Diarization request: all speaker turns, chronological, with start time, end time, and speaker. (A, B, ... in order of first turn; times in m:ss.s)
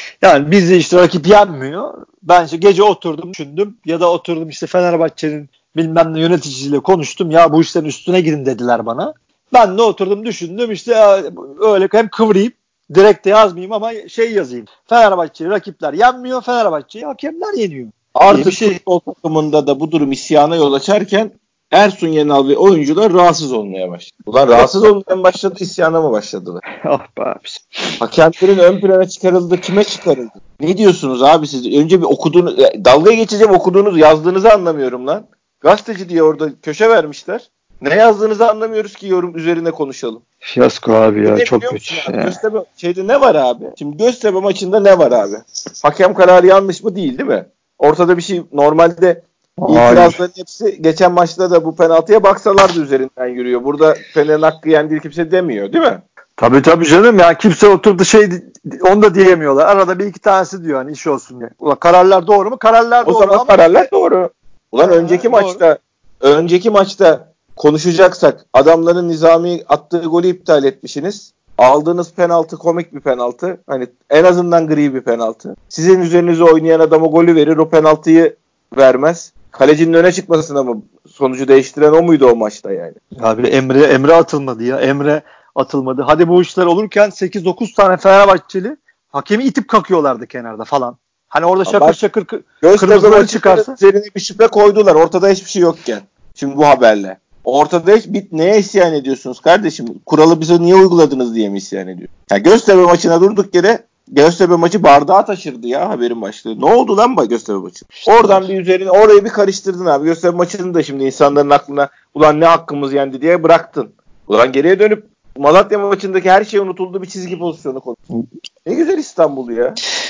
0:00.2-0:18.8 A
0:18.1-0:26.6 B
0:26.8-0:27.9 A
0:28.0-0:40.2 B
0:40.4-0:42.3 A
0:41.2-0:56.0 B
0:49.6-0:50.2 A
0:56.4-1:03.9 A
1:03.0-1:23.0 B
1:04.8-1:05.6 A
1:23.2-1:33.8 A
1:31.6-1:32.0 B
1:32.6-1:58.0 B
1:48.0-1:48.5 A
1:58.6-1:59.8 B